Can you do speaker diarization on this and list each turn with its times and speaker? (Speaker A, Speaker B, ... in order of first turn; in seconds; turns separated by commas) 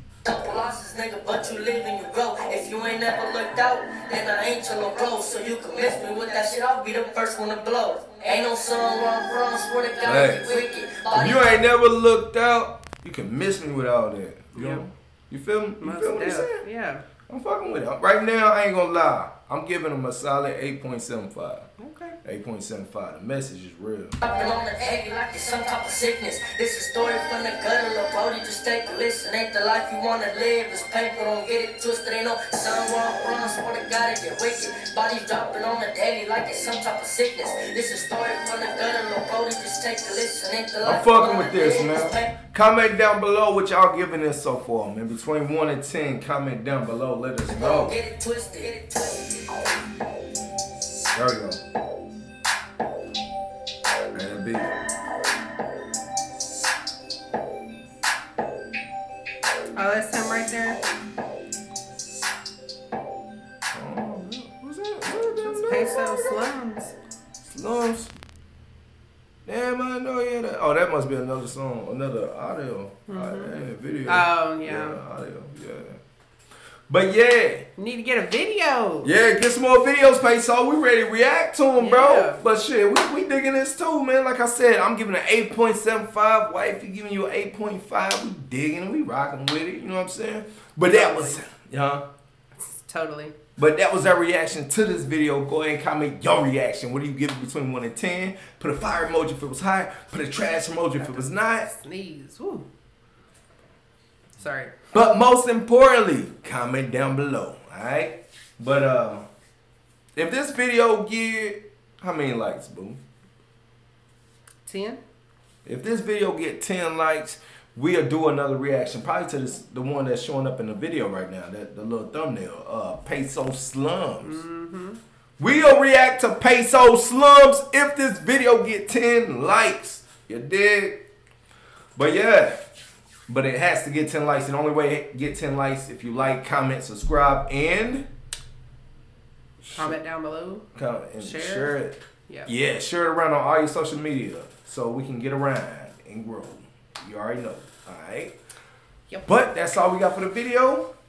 Speaker A: 0.2-11.6, Speaker B: 10.1-10.5, Speaker B: 11.1-16.6, Speaker C: 14.6-14.8, Speaker C: 15.8-17.1, Speaker B: 17.3-21.7, Speaker C: 21.8-22.2, Speaker B: 22.2-24.2, Speaker A: 24.2-42.3, Speaker B: 40.8-48.0, Speaker A: 47.5-49.4, Speaker B: 51.1-51.6, Speaker B: 54.1-54.9, Speaker C: 59.8-60.8, Speaker B: 63.7-66.5, Speaker C: 65.3-66.9, Speaker B: 67.4-68.1, Speaker B: 69.5-76.0, Speaker C: 73.1-75.0, Speaker B: 76.9-77.7, Speaker C: 77.8-79.1, Speaker B: 79.0-92.0, Speaker C: 81.8-82.4, Speaker C: 90.8-91.5, Speaker C: 92.5-93.3, Speaker B: 93.6-101.7, Speaker C: 101.0-102.7, Speaker C: 104.4-104.8, Speaker B: 104.9-109.2, Speaker B: 110.2-113.0, Speaker C: 114.7-115.0, Speaker B: 115.7-124.4, Speaker C: 124.2-125.0, Speaker B: 125.4-131.0, Speaker B: 132.0-132.7, Speaker B: 133.3-138.1, Speaker C: 139.6-140.7, Speaker B: 139.7-140.0, Speaker B: 140.8-148.3, Speaker C: 141.2-141.8, Speaker C: 149.1-149.3, Speaker B: 149.3-150.9